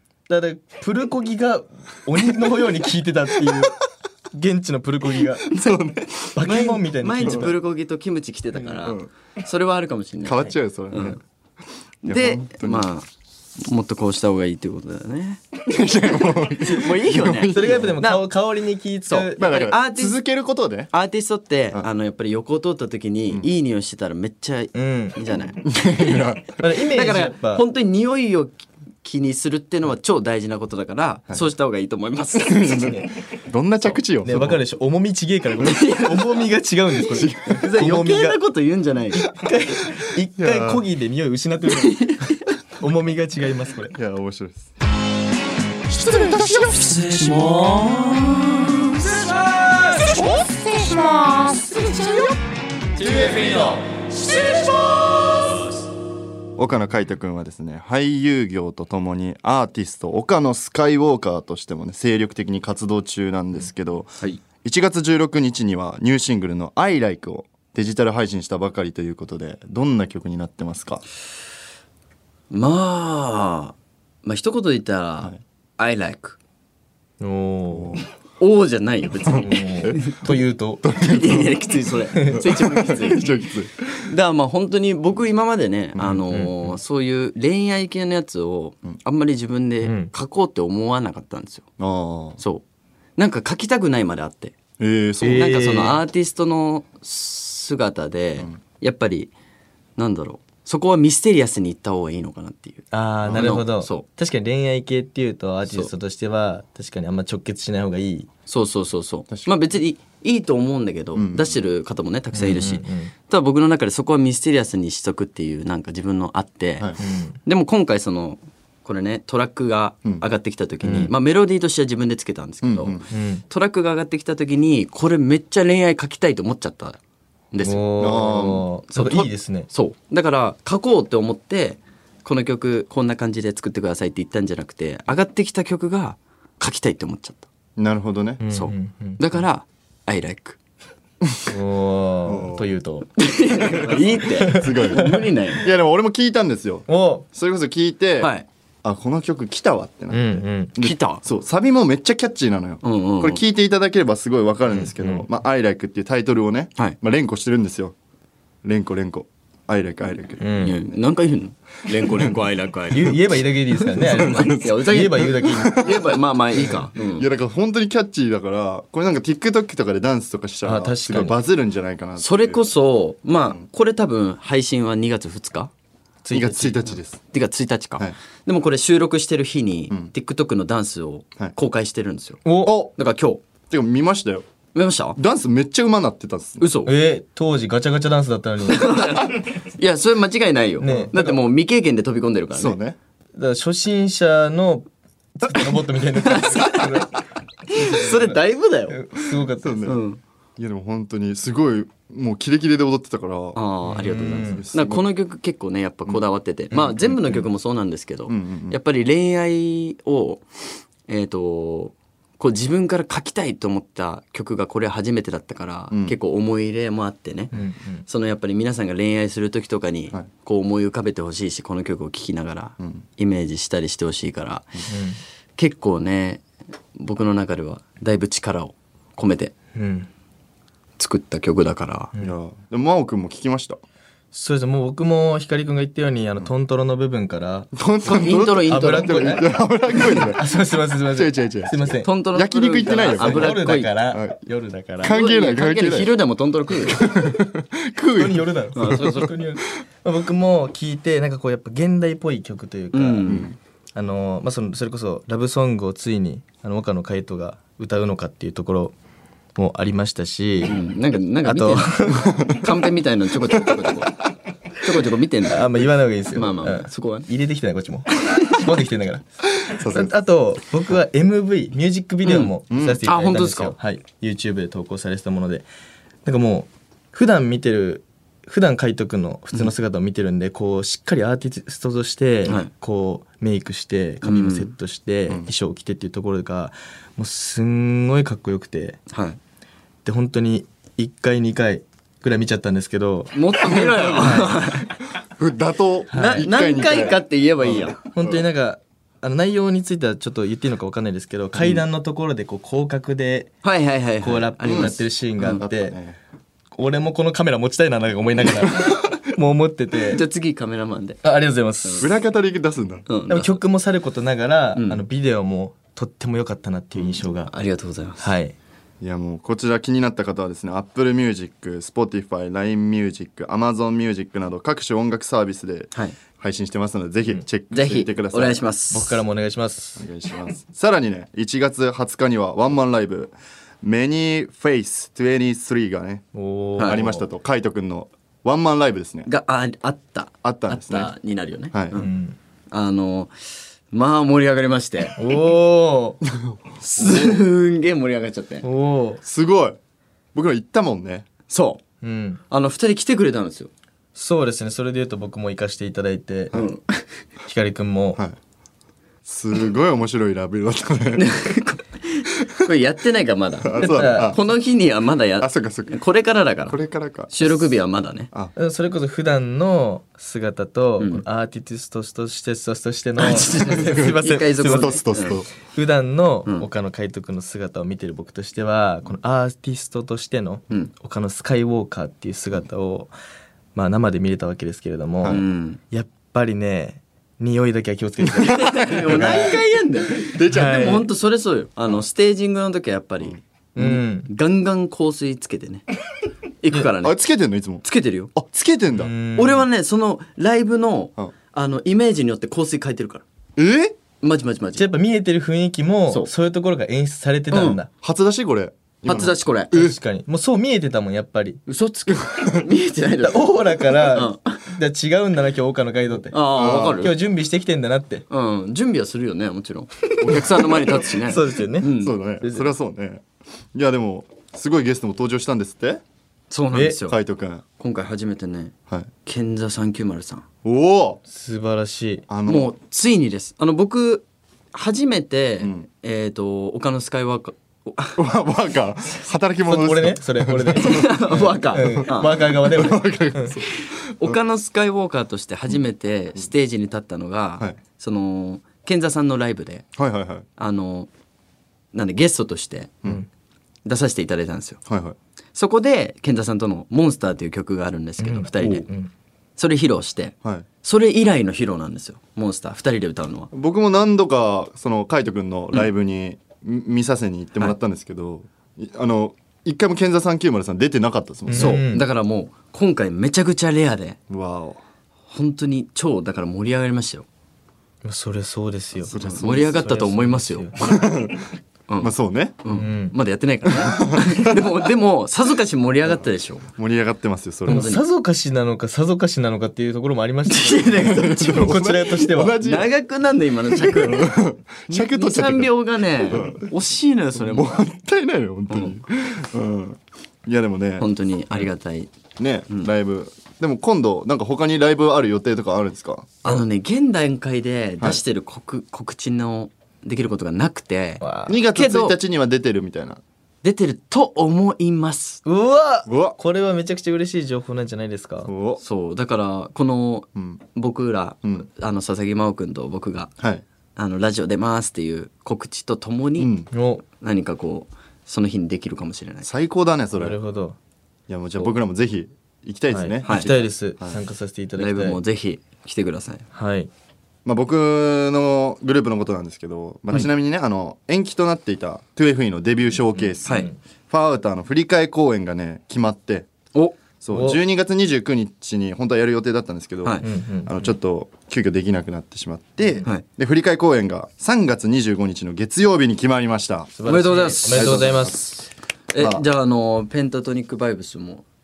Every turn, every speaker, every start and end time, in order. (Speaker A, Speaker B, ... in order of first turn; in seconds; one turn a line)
Speaker A: 0.3-5.5
Speaker B: 5.5-6.3
Speaker A: 6.3-7.5
Speaker C: 6.3-11.2
Speaker B: 8.8-9.1
Speaker B: 10.2-11.2
Speaker C: 12.0-13.1
Speaker B: 12.0-12.9
Speaker C: 13.6-18.3
Speaker B: 15.7-17.9
Speaker A: 17.3-19.5
Speaker C: 19.1-20.2
Speaker B: 19.4-20.9
Speaker C: 20.9-26.2
Speaker A: 24.7-25.2
Speaker B: 25.6-26.6
Speaker A: 26.6-27.6
Speaker C: 26.9-32.9
Speaker B: 32.4-34.6
Speaker A: 34.2-38.4
Speaker C: 35.6-36.4
Speaker B: 37.1-37.7
Speaker C: 37.5-39.2
Speaker A: 39.2-44.0
Speaker B: 40.4-40.8
Speaker C: 41.8-42.2
Speaker B: 43.9-44.7
Speaker B: 46.1-46.8
Speaker D: 46.8-48.5
Speaker D: 53.1-53.8
Speaker B: 56.5-71.0
Speaker C: 72.5-76.4
Speaker A: 77.2-78.0
Speaker B: 77.7-78.0
Speaker C: 78.4-80.2
Speaker B: 79.3-80.1
Speaker A: 79.4-80.9
Speaker B: 80.8-81.6
Speaker C: 81.0-83.3
Speaker A: 82.2-82.5
Speaker B: 82.3-84.0
Speaker C: 84.1-91.7
Speaker A: 86.3-86.8
Speaker A: 89.8-90.1
Speaker B: 91.8-92.4
Speaker C: 92.4-92.6
Speaker C: 93.2-94.5
Speaker B: 94.8-95.7
Speaker A: 95.2-96.0
Speaker C: 95.3-99.3
Speaker C: 100.0-104.0
Speaker A: 102.9-108.3
Speaker B: 103.2-103.6
Speaker C: 108.5-116.9
Speaker B: 109.3-109.6
Speaker B: 111.1-111.5
Speaker A: 112.3-113.1
Speaker A: 117.0-117.4
Speaker C: 117.5-127.0
Speaker A: 120.8-121.1
Speaker B: 122.6-123.1
Speaker A: 123.1-123.4
Speaker C: 127.5-128.3
Speaker A: 127.6-129.7
Speaker B: 128.0-128.7
Speaker C: 128.9-137.5
Speaker B: 137.8-138.4
Speaker A: 138.4-139.2
Speaker C: 138.5-140.6
Speaker A: 141.4-143.1
Speaker B: 142.2-142.7
Speaker C: 143.2-145.7
Speaker A: 144.4-145.2
Speaker B: 144.4-148.3
Speaker A: 146.9-147.2
Speaker C: 148.2-148.5
Speaker B: 148.8-157.9
Speaker A: 150.1-150.8
Speaker C: 150.8-151.2
Speaker C: 152.8-153.4
Speaker A: 154.7-155.3
Speaker B: 158.6-160.5
Speaker A: 160.4-160.8
Speaker C: 160.6-163.4
Speaker A: 162.9-165.9
Speaker B: 164.0-172.6
Speaker C: 164.1-167.3
Speaker A: 170.6-171.4
Speaker C: 172.2-175.7
Speaker A: 176.2-176.9
Speaker B: 176.3-177.2
Speaker C: 177.3-183.4
Speaker A: 182.4-182.8
Speaker B: 182.6-182.9
Speaker B: 183.7-184.4
Speaker C: 184.7-185.2
Speaker B: 185.2-186.6
Speaker C: 186.6-186.9
Speaker A: 186.8-189.0
Speaker C: 188.7-192.8
Speaker A: 190.8-191.4
Speaker B: 192.5-193.0
Speaker A: 193.3-197.1
Speaker C: 196.2-197.0
Speaker C: 197.7-199.0
Speaker A: 197.7-198.4
Speaker A: 198.9-199.9
Speaker B: 199.6-200.0
Speaker C: 199.8-200.2
Speaker B: 200.6-203.6
Speaker C: 203.5-210.5
Speaker A: 203.9-204.6
Speaker B: 204.4-205.1
Speaker B: 206.7-207.4
Speaker B: 208.3-208.8
Speaker C: 211.1-217.5
Speaker A: 217.5-218.0
Speaker C: 218.1-224.8
Speaker A: 224.9-225.2
Speaker C: 225.6-226.4
Speaker C: 226.9-229.5
Speaker A: 229.8-230.1
Speaker C: 231.0-232.1
Speaker B: 232.2-233.8
Speaker A: 234.3-237.7
Speaker B: 237.7-240.5
Speaker C: 238.0-239.4
Speaker A: 238.7-242.1
Speaker B: 241.1-243.6
Speaker C: 242.0-243.9
Speaker A: 243.0-245.2
Speaker B: 244.1-244.4
Speaker B: 245.0-246.1
Speaker C: 245.1-247.1
Speaker B: 246.8-249.3
Speaker A: 248.2-253.4
Speaker C: 248.8-249.3
Speaker C: 252.9-253.5
Speaker A: 253.9-258.9
Speaker A: 259.6-260.8
Speaker C: 260.6-264.1
Speaker A: 261.4-262.5
Speaker B: 262.1-262.6
Speaker C: 264.8-267.3
Speaker A: 265.5-275.6
Speaker B: 269.7-270.1
Speaker C: 272.2-273.8
Speaker B: 272.7-273.0
Speaker A: 276.2-289.0
Speaker C: 284.2-284.7
Speaker C: 289.1-289.4
Speaker A: 290.0-294.6
Speaker C: 293.3-294.9
Speaker B: 295.2-298.4
Speaker A: 296.1-296.5
Speaker C: 296.1-298.0
Speaker A: 298.1-303.6
Speaker C: 301.6-301.8
Speaker C: 303.6-305.6
Speaker A: 304.2-305.9
Speaker B: 305.5-306.2
Speaker A: 306.8-310.2
Speaker C: 310.1-311.2
Speaker A: 311.2-312.1
Speaker B: 312.0-313.1
Speaker C: 313.1-313.6
Speaker A: 313.3-317.5
Speaker C: 314.8-315.0
Speaker B: 316.9-317.2
Speaker C: 317.5-318.3
Speaker A: 318.2-318.5
Speaker B: 319.0-328.6
Speaker C: 327.7-329.2
Speaker A: 328.9-330.1
Speaker B: 330.0-336.3
Speaker A: 336.3-337.2
Speaker B: 336.8-339.3
Speaker C: 339.2-342.1
Speaker B: 340.4-341.1
Speaker B: 341.7-342.0
Speaker A: 341.9-342.4
Speaker C: 342.7-343.3
Speaker C: 343.9-345.2
Speaker A: 345.2-346.2
Speaker B: 346.3-347.4
Speaker C: 346.8-348.6
Speaker A: 348.6-349.2
Speaker B: 349.2-349.8
Speaker B: 350.3-351.3
Speaker C: 351.5-351.8
Speaker A: 352.0-352.4
Speaker C: 352.5-353.7
Speaker A: 354.1-356.6
Speaker C: 356.5-357.1
Speaker A: 357.4-358.2
Speaker B: 359.2-361.3
Speaker C: 361.1-366.8
Speaker B: 363.6-364.4
Speaker A: 363.8-364.4
Speaker B: 365.4-366.0
Speaker B: 366.7-367.6
Speaker C: 367.3-368.3
Speaker A: 368.6-383.1
Speaker C: 371.0-371.2
Speaker C: 373.2-375.4
Speaker B: 373.8-374.1
Speaker B: 374.6-375.5
Speaker A: 383.8-389.6
Speaker C: 385.3-385.8
Speaker C: 388.4-395.8
Speaker B: 389.1-389.4
Speaker B: 390.2-391.0
Speaker A: 390.5-391.1
Speaker A: 393.8-394.3
Speaker C: 396.6-397.2
Speaker B: 397.0-399.1
Speaker C: 397.8-398.3
Speaker A: 399.0-399.6
Speaker C: 399.3-403.2
Speaker B: 403.6-404.0
Speaker C: 404.2-404.9
Speaker A: 404.8-407.9
Speaker C: 407.5-407.8
Speaker B: 408.0-409.9
Speaker C: 409.0-409.9
Speaker A: 409.7-411.6
Speaker C: 411.7-414.6
Speaker B: 412.3-412.5
Speaker A: 413.2-418.2
Speaker C: 416.3-417.1
Speaker B: 416.5-417.1
Speaker C: 418.3-422.1
Speaker A: 420.3-422.6
Speaker B: 421.9-426.0
Speaker C: 426.5-427.2
Speaker B: 427.0-427.6
Speaker C: 427.8-428.7
Speaker C: 429.2-430.4
Speaker B: 430.6-431.2
Speaker A: 431.3-432.2
Speaker B: 432.3-432.7
Speaker C: 432.5-438.2
Speaker B: 435.6-435.9
Speaker B: 438.2-444.4
Speaker A: 439.6-443.6
Speaker C: 440.8-442.6
Speaker C: 443.7-449.9
Speaker B: 450.0-450.5
Speaker C: 450.6-451.1
Speaker C: 451.9-453.0
Speaker C: 453.8-454.8
Speaker B: 454.9-455.1
Speaker C: 455.5-458.9
Speaker A: 458.2-459.1
Speaker C: 459.6-463.5
Speaker B: 463.5-471.8
Speaker A: 471.5-472.1
Speaker C: 471.5-474.2
Speaker B: 474.3-474.8
Speaker C: 475.3-477.2
Speaker A: 478.0-480.9
Speaker B: 479.0-479.9
Speaker C: 479.1-480.9
Speaker B: 480.8-481.5
Speaker C: 481.9-486.7
Speaker B: 482.0-482.6
Speaker A: 482.7-483.1
Speaker B: 483.8-484.6
Speaker B: 486.8-487.9
Speaker C: 487.7-488.0
Speaker A: 487.7-492.6
Speaker C: 490.5-491.9
Speaker B: 490.9-492.9
Speaker C: 492.6-497.8
Speaker B: 493.7-496.7
Speaker B: 497.4-501.1
Speaker C: 498.7-499.0
Speaker C: 501.0-502.1
Speaker B: 502.4-506.6
Speaker C: 506.4-512.2
Speaker A: 511.2-511.6
Speaker B: 511.5-513.2
Speaker C: 513.6-515.4
Speaker A: 515.5-518.5
Speaker B: 516.0-516.4
Speaker B: 518.5-518.8
Speaker C: 518.8-523.3
Speaker B: 520.3-520.6
Speaker C: 524.0-526.5
Speaker B: 526.4-526.7
Speaker A: 526.7-527.0
Speaker C: 527.1-529.5
Speaker B: 529.4-530.4
Speaker A: 530.2-530.8
Speaker B: 531.3-534.2
Speaker A: 532.9-535.2
Speaker C: 533.2-533.5
Speaker C: 534.8-536.5
Speaker A: 536.5-536.9
Speaker B: 537.5-546.5
Speaker A: 543.3-543.7
Speaker C: 543.5-543.7
Speaker B: 547.2-557.0
Speaker A: 547.3-547.6
Speaker A: 550.2-550.9
Speaker A: 557.0-558.5
Speaker C: 557.0-561.4
Speaker B: 557.7-558.4
Speaker B: 559.2-559.5